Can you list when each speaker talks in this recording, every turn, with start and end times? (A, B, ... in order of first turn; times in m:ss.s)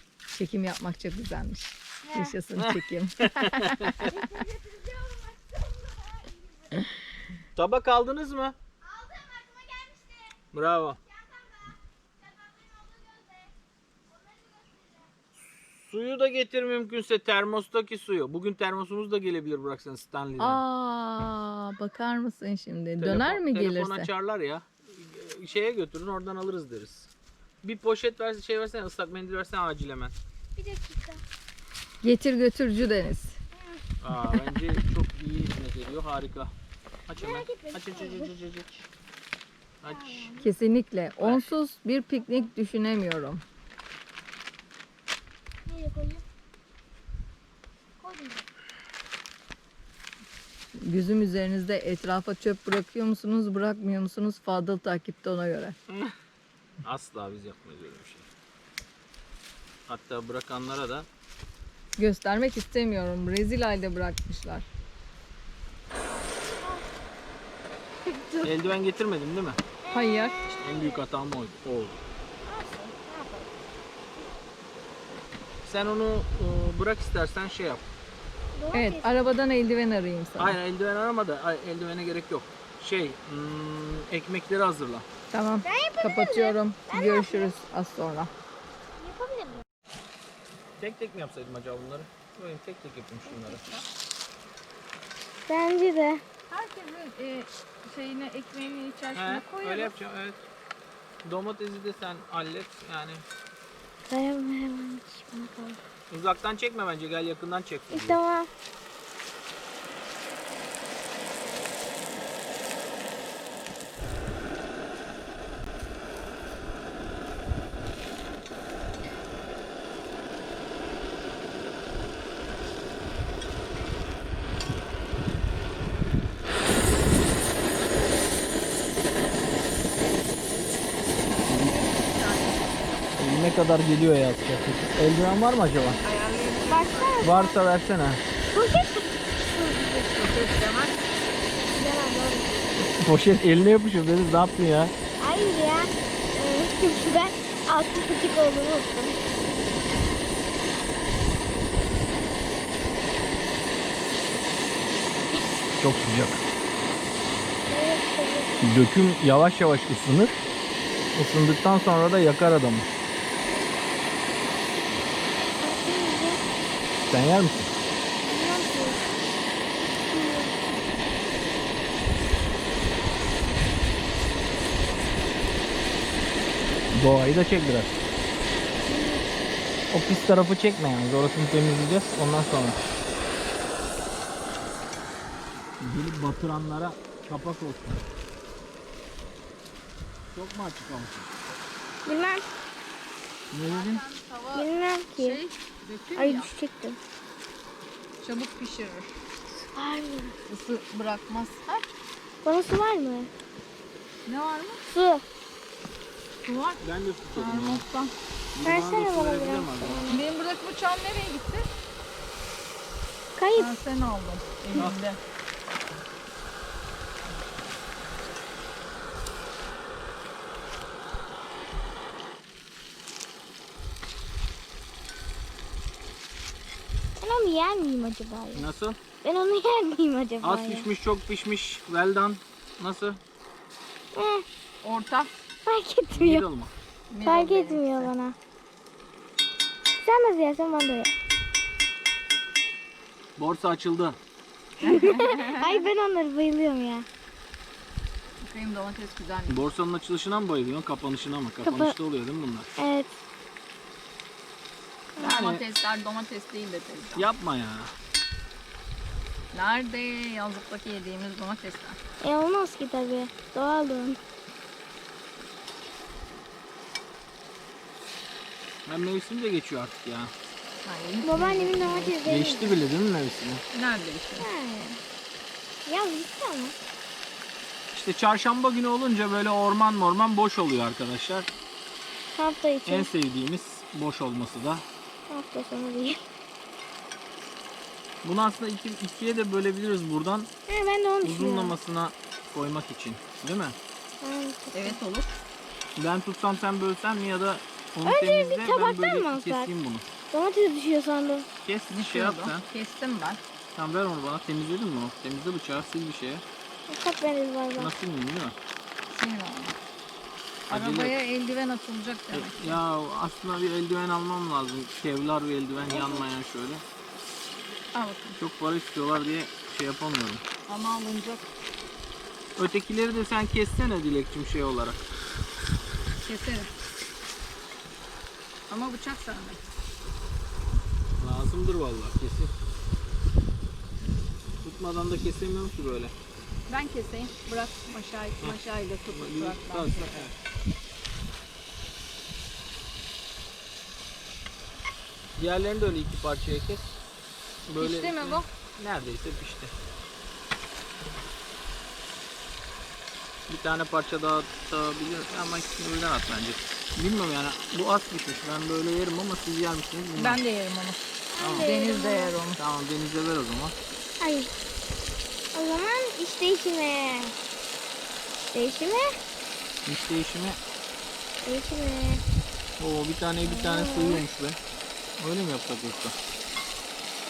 0:00.3-0:04.3 A
0:02.1-0:02.4 B
0:02.6-0:04.1 C
0:04.1-0:07.0 B
0:07.6-0:08.6 C
0:08.8-0:10.4 B
0:10.5-0:11.0 C
0:11.1-0:13.5 B
0:14.1-0:15.1 B
0:15.4-0:20.6 C
0:20.4-0:24.1 A
0:23.0-0:27.1 C
0:27.6-0:30.1 C
0:30.6-0:31.2 B
0:32.0-0:33.4 A
0:34.0-0:36.5 C
0:37.1-0:38.9 C
0:37.2-0:38.3 B
0:39.8-0:40.3 C
0:39.8-0:40.5 B
0:40.4-0:43.4 A
0:41.2-0:41.5 C
0:45.6-0:46.2 B
0:48.0-0:48.4 B
0:50.8-0:55.8 A
0:56.8-0:58.3 C
0:59.9-1:01.1 C
1:02.0-1:04.6 A
1:06.3-1:06.9 B
1:08.0-1:08.5 B
1:08.4-1:09.6 C
1:09.8-1:11.0 B
1:09.9-1:10.5 A
1:10.6-1:12.0 C
1:12.4-1:13.5 B
1:15.6-1:17.8 C
1:18.5-1:19.3 B
1:18.7-1:20.6 A
1:20.4-1:25.1 C
1:25.3-1:28.3 A
1:25.6-1:27.5 B
1:29.0-1:29.6 B
1:30.8-1:33.7 C
1:33.3-1:33.8 A
1:35.4-1:36.2 B
1:36.5-1:39.9 A
1:39.1-1:40.4 C
1:41.2-1:43.2 C
1:44.1-1:45.8 B
1:46.1-1:48.2 C
1:47.9-1:48.5 B
2:11.4-2:11.8 C
2:11.6-2:12.7 A
2:13.2-2:16.0 C
2:16.0-2:17.2 A
2:16.7-2:17.6 B
2:17.2-2:18.2 C
2:18.5-2:20.1 B
2:20.1-2:21.0 A
2:21.7-2:22.6 B
2:22.9-2:24.9 C
2:25.2-2:29.4 B
2:35.8-2:36.4 C
2:37.7-2:38.6 B
2:38.6-2:40.4 C
2:41.1-2:42.9 C
2:45.6-2:46.4 B
2:47.1-2:47.8 C
2:48.2-2:49.0 B
2:50.0-2:50.9 B
2:56.9-2:58.0 C
2:58.8-2:59.3 B
2:59.9-3:02.8 C
3:05.8-3:08.0 C
3:10.3-3:11.3 C
3:12.0-3:12.5 B
3:13.5-3:14.0 C
3:13.6-3:16.5 A
3:14.5-3:15.4 B
3:16.1-3:17.0 B
3:18.2-3:19.1 A
3:19.7-3:20.4 B
3:20.5-3:21.9 A
3:22.4-3:23.3 B
3:24.2-3:24.8 A
3:24.9-3:25.2 B
3:26.4-3:26.8 A
3:26.8-3:27.8 C
3:27.3-3:28.1 A
3:28.5-3:30.1 C
3:28.6-3:30.2 B
3:30.1-3:31.6 A
3:33.4-3:33.7 B
3:33.5-3:35.2 A
3:34.7-3:35.0 C
3:47.2-3:48.7 B
3:48.5-3:49.0 C
3:49.2-3:50.9 B
3:50.4-3:53.2 C
3:54.1-3:54.4 B
3:54.8-3:55.3 A
3:55.6-3:56.4 B
3:56.1-3:56.7 C
3:57.1-3:58.1 A
3:57.2-3:58.4 B
3:59.9-4:01.1 B
4:03.4-4:04.2 C
4:04.8-4:05.8 A
4:04.8-4:07.0 B
4:08.4-4:09.6 A
4:09.5-4:12.8 C
4:11.6-4:11.9 B
4:12.8-4:13.1 B
4:15.2-4:17.3 A
4:15.2-4:15.6 C
4:17.2-4:17.9 C
4:19.5-4:22.0 A
4:22.2-4:24.2 B
4:28.8-4:30.3 C
4:30.8-4:32.2 A
4:31.2-4:32.8 B
4:32.2-4:33.6 C
4:33.7-4:34.5 A
4:34.4-4:35.0 B
4:35.8-4:36.8 B
4:37.9-4:41.5 C
4:42.3-4:43.1 B
4:42.8-4:44.8 C
4:45.3-4:46.2 B
4:48.2-4:50.5 C
4:50.7-4:51.8 B
4:51.2-4:53.8 C
4:54.2-4:55.0 B
4:54.7-4:55.3 A
4:56.0-5:00.0 C
4:58.0-4:59.7 B
5:00.3-5:01.5 B
5:01.6-5:02.6 C
5:01.9-5:03.4 A
5:03.7-5:06.4 C
5:06.9-5:07.9 B
5:07.8-5:08.6 C
5:09.1-5:09.7 A
5:10.7-5:11.2 C
5:10.7-5:12.8 A
5:12.3-5:16.8 C
5:15.9-5:16.2 A
5:17.9-5:18.4 A
5:18.4-5:20.4 C
5:20.7-5:21.5 A
5:22.6-5:25.1 C
5:26.2-5:26.7 A
5:28.7-5:29.6 A
5:31.2-5:32.5 C
5:34.6-5:36.1 C
5:36.7-5:40.3 A
5:39.1-5:40.3 C
5:45.4-5:46.9 C
5:47.7-5:49.7 C
5:47.8-5:48.5 A
5:53.5-6:00.4 C
6:00.2-6:01.0 A
6:01.3-6:02.4 B
6:01.4-6:01.7 C
6:01.6-6:02.6 A
6:02.6-6:03.7 C
6:04.2-6:04.5 B
6:05.5-6:07.4 B
6:08.5-6:09.1 B
6:09.8-6:10.6 C
6:11.4-6:12.2 B
6:12.8-6:14.6 C
6:13.4-6:14.2 B
6:15.2-6:16.1 C